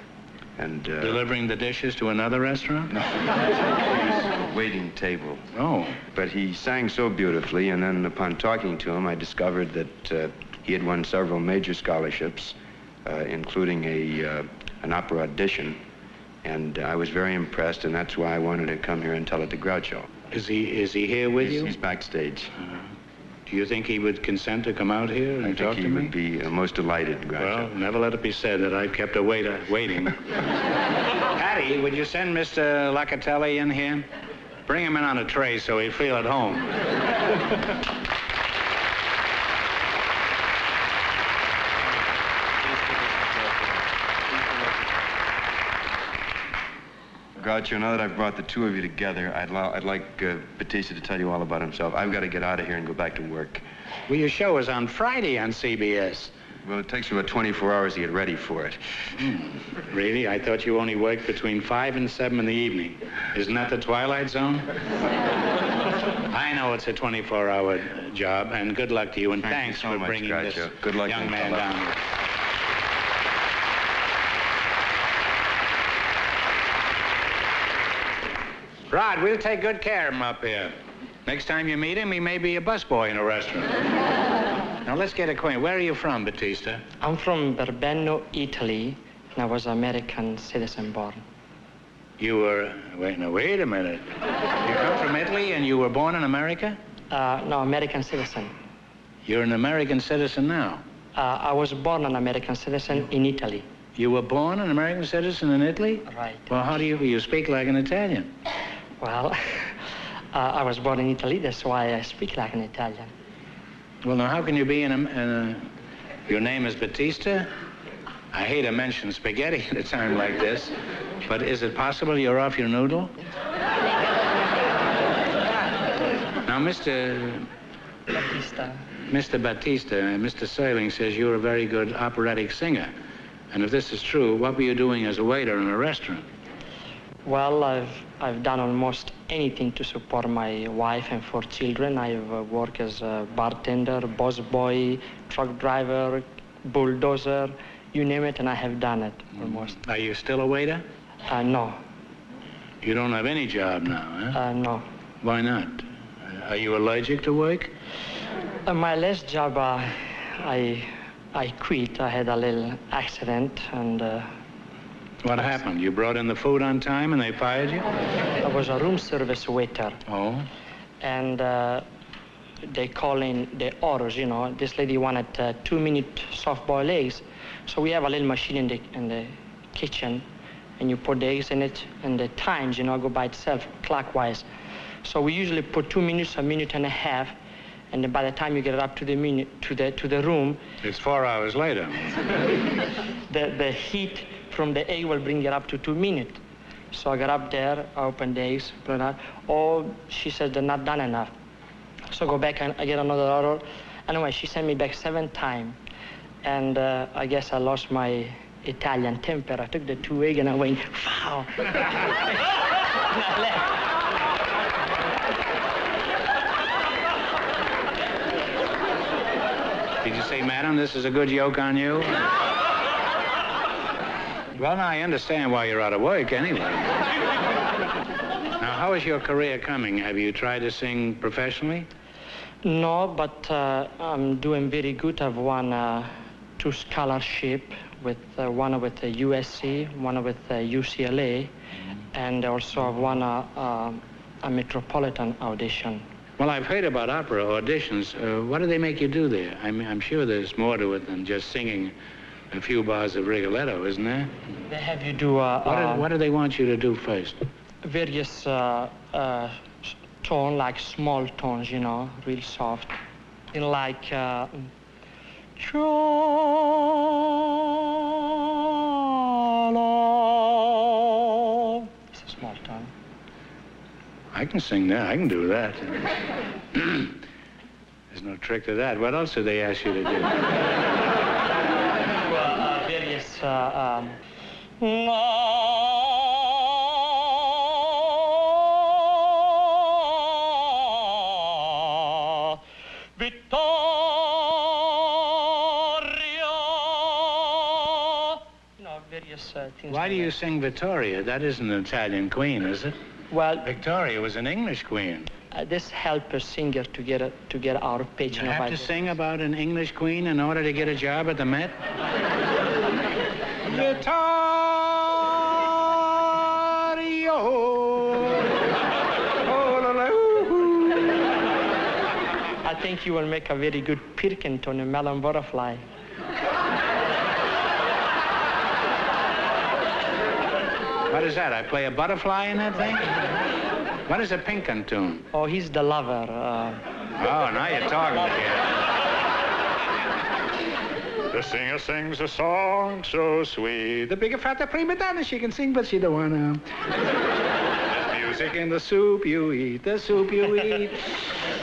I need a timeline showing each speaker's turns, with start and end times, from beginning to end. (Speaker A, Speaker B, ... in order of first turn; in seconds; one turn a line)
Speaker A: 0.6-1.2
Speaker B: 1.0-2.9
Speaker A: 2.9-5.4
Speaker B: 5.5-6.0
Speaker A: 6.1-15.8
Speaker A: 16.4-20.1
Speaker B: 20.3-21.7
Speaker A: 21.4-22.5
Speaker B: 23.5-26.1
Speaker A: 25.4-27.7
Speaker B: 27.4-30.4
Speaker B: 31.3-34.1
Speaker B: 34.7-36.7
Speaker A: 47.4-53.6
Speaker B: 54.1-56.3
Speaker A: 56.6-58.8
Speaker B: 59.2-64.7
Speaker B: 66.3-72.0
Speaker A: 69.4-71.7
Speaker B: 78.9-80.7
Speaker B: 81.2-83.8
Speaker B: 84.8-86.8
Speaker C: 87.0-91.2
Speaker B: 92.2-94.1
Speaker B: 94.6-96.8
Speaker C: 97.1-98.5
Speaker B: 99.2-100.8
Speaker C: 101.1-103.7
Speaker B: 103.9-108.3
Speaker C: 106.1-106.5
Speaker C: 109.0-109.7
Speaker C: 110.3-113.1
Speaker B: 114.0-115.6
Speaker B: 116.3-117.5
Speaker B: 118.3-120.7
Speaker B: 121.2-123.1
Speaker B: 126.4-127.5
Speaker C: 128.1-128.8
Speaker B: 129.1-132.9
Speaker B: 133.5-136.2
Speaker C: 137.2-149.8
Speaker B: 149.5-150.8
Speaker C: 151.3-151.8
Speaker B: 152.8-154.4
Speaker C: 154.3-154.8
Speaker B: 155.2-157.7
Speaker C: 158.7-164.3
Speaker B: 165.2-167.8
Speaker C: 168.4-170.0
Speaker B: 170.1-170.5
Speaker C: 171.0-171.8
Speaker C: 172.7-180.2
Speaker C: 180.8-184.5
Speaker C: 185.0-187.4
Speaker C: 187.9-190.6
Speaker B: 190.8-192.2
Speaker C: 193.2-196.4
Speaker C: 196.9-201.3
Speaker C: 202.1-205.8
Speaker C: 206.4-213.8
Speaker B: 220.0-222.2
Speaker B: 224.6-226.9
Speaker B: 228.6-231.9
Speaker C: 232.6-241.5
Speaker C: 242.1-246.0
Speaker B: 246.4-251.9
Speaker B: 252.5-254.3
Speaker C: 254.7-256.1
Speaker B: 255.6-257.4
Speaker C: 257.8-263.0
Speaker C: 263.5-264.7
Speaker C: 265.6-267.6
Speaker C: 268.5-272.9
Speaker B: 274.3-276.1
Speaker B: 276.7-277.2
Speaker B: 278.1-280.4
Speaker C: 282.1-284.2
Speaker C: 284.8-287.2
Speaker C: 287.8-289.6
Speaker C: 290.3-291.0
Speaker C: 293.2-300.3
Speaker B: 299.9-302.9
Speaker C: 303.3-303.7
Speaker B: 303.6-305.3
Speaker C: 305.5-309.1
Speaker B: 308.3-311.8
Speaker B: 313.6-318.4
Speaker B: 319.4-320.9
Speaker C: 322.6-325.8
Speaker B: 331.1-333.1
Speaker B: 334.1-335.2
Speaker C: 335.3-336.8
Speaker B: 337.2-338.8
Speaker B: 341.3-346.6
Speaker B: 347.8-351.2